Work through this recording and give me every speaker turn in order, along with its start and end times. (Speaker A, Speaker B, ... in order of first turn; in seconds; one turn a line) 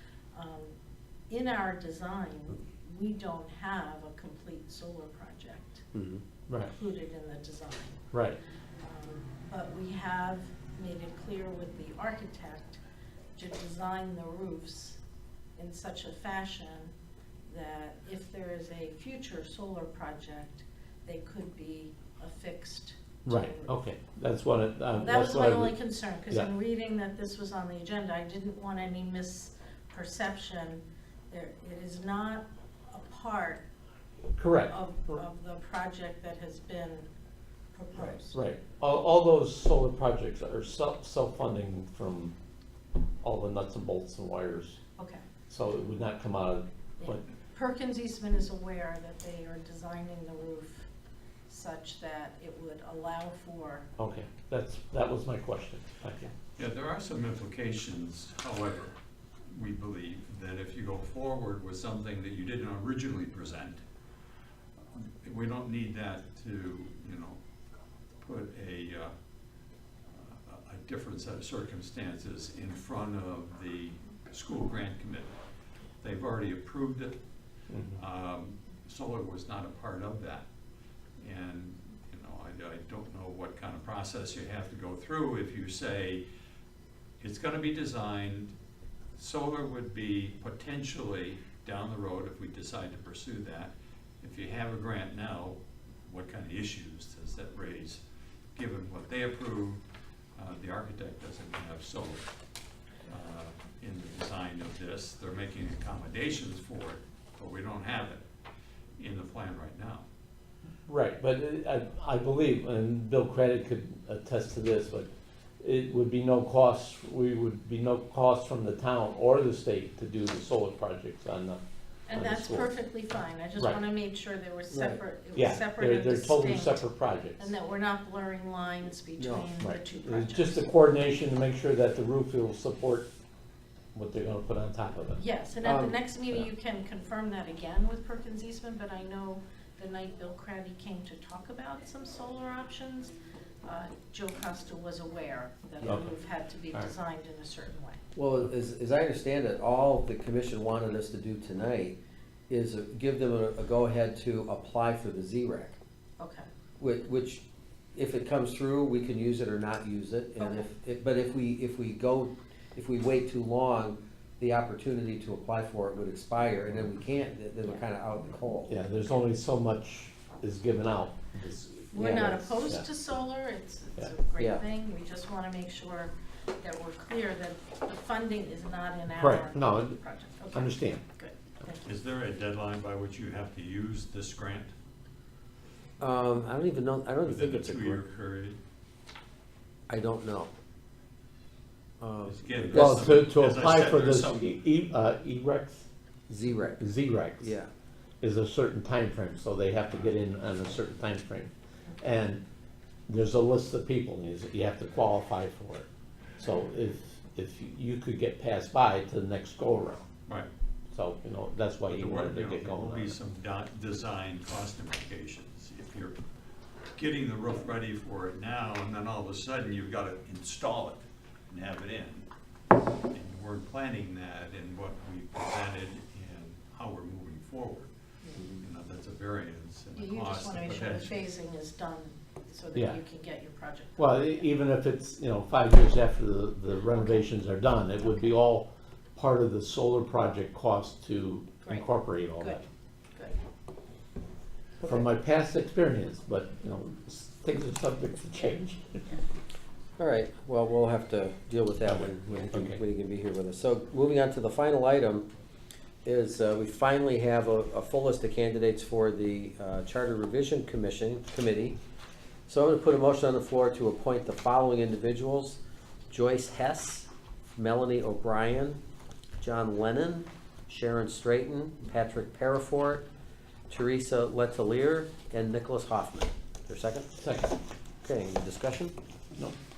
Speaker A: 0.3-0.7
Speaker A: 1.3-5.8
Speaker B: 5.9-6.2
Speaker A: 6.7-8.1
Speaker C: 8.1-8.4
Speaker A: 8.8-12.8
Speaker A: 13.3-15.0
Speaker A: 15.6-16.9
Speaker A: 17.5-23.7
Speaker C: 23.2-25.8
Speaker A: 24.9-33.6
Speaker C: 34.4-35.2
Speaker A: 34.6-37.1
Speaker A: 37.7-38.4
Speaker C: 38.0-42.3
Speaker C: 43.2-44.8
Speaker A: 45.0-45.2
Speaker C: 45.5-47.2
Speaker A: 47.0-50.9
Speaker A: 51.5-53.9
Speaker C: 54.0-56.3
Speaker D: 56.6-58.9
Speaker D: 59.5-63.8
Speaker D: 64.9-67.4
Speaker D: 68.2-69.1
Speaker D: 70.1-75.3
Speaker D: 76.0-77.2
Speaker C: 77.7-78.0
Speaker D: 77.9-80.4
Speaker D: 81.2-86.2
Speaker D: 87.2-88.5
Speaker D: 89.2-98.0
Speaker D: 98.5-99.8
Speaker D: 100.3-102.2
Speaker D: 103.1-108.2
Speaker D: 109.0-110.0
Speaker C: 110.9-121.6
Speaker A: 122.1-130.6
Speaker C: 122.1-122.7
Speaker B: 124.7-125.0
Speaker C: 125.3-127.5
Speaker B: 129.2-129.5
Speaker C: 129.6-133.1
Speaker C: 133.9-135.2
Speaker A: 135.2-148.0
Speaker B: 135.6-136.0
Speaker B: 148.1-152.0
Speaker B: 152.5-155.8
Speaker A: 156.2-156.5
Speaker B: 156.8-168.7
Speaker A: 160.4-160.7
Speaker C: 168.7-172.8
Speaker A: 171.9-181.8
Speaker B: 171.9-172.4
Speaker B: 174.4-174.6
Speaker C: 179.1-180.0
Speaker C: 180.5-181.0
Speaker D: 181.8-184.7
Speaker B: 186.0-188.1
Speaker D: 187.2-188.6
Speaker B: 189.9-190.5
Speaker B: 192.0-193.1
Speaker D: 192.2-194.4
Speaker C: 192.7-195.9
Speaker B: 196.3-196.8
Speaker C: 196.8-197.5
Speaker B: 197.4-197.7
Speaker C: 198.2-202.4
Speaker C: 203.1-205.9
Speaker C: 206.4-210.0
Speaker C: 210.9-213.1
Speaker D: 211.9-216.2
Speaker D: 216.9-222.3
Speaker D: 223.1-227.9
Speaker D: 228.5-231.3
Speaker A: 229.9-234.5
Speaker C: 234.0-242.6
Speaker A: 236.9-237.2
Speaker A: 238.0-238.3
Speaker C: 244.8-249.0
Speaker B: 250.0-255.3
Speaker C: 251.8-252.8
Speaker B: 256.0-261.8
Speaker B: 262.5-268.8
Speaker B: 269.4-273.1
Speaker B: 273.7-277.1
Speaker C: 277.2-277.6
Speaker B: 278.0-278.9